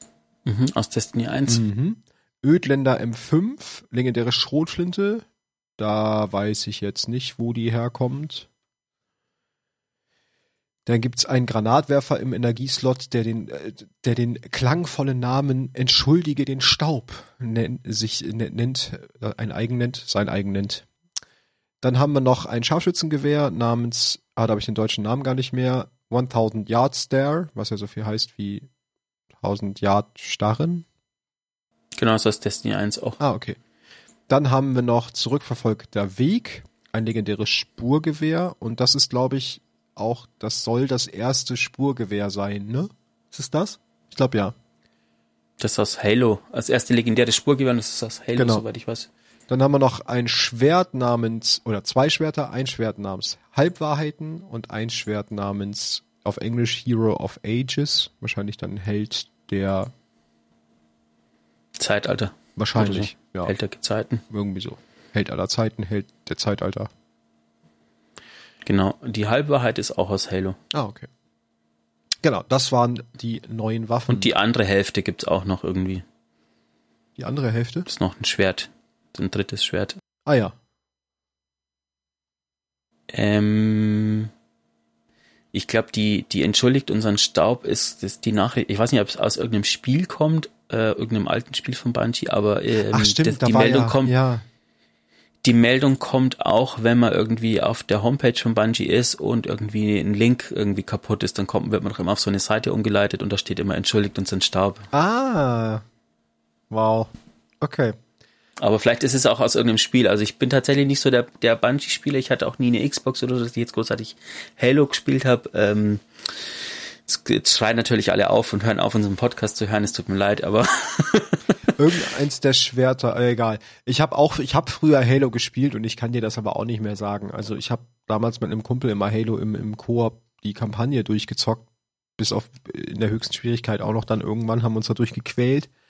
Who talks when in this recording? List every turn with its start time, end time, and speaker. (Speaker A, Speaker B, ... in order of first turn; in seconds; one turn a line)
Speaker A: 0.5-1.7
Speaker B: 1.5-5.3
Speaker B: 5.8-8.5
Speaker B: 10.9-20.9
Speaker B: 21.8-28.7
Speaker B: 29.4-30.9
Speaker A: 32.0-33.2
Speaker B: 33.2-33.6
Speaker B: 34.3-44.5
Speaker A: 45.6-49.1
Speaker B: 48.4-48.6
Speaker B: 49.5-59.9
Speaker A: 61.8-64.2
Speaker B: 62.6-63.5
Speaker B: 64.3-66.9
Speaker A: 68.7-70.6
Speaker B: 70.7-71.1
Speaker B: 72.2-74.3
Speaker A: 74.1-76.0
Speaker B: 77.2-77.9
Speaker A: 77.9-80.0
Speaker B: 80.3-80.6
Speaker A: 83.1-84.3
Speaker A: 85.5-94.1
Speaker B: 92.9-94.5
Speaker A: 95.4-104.9
Speaker B: 104.9-105.8
Speaker B: 106.7-108.0
Speaker A: 108.6-116.5
Speaker A: 117.1-121.5
Speaker B: 121.8-135.7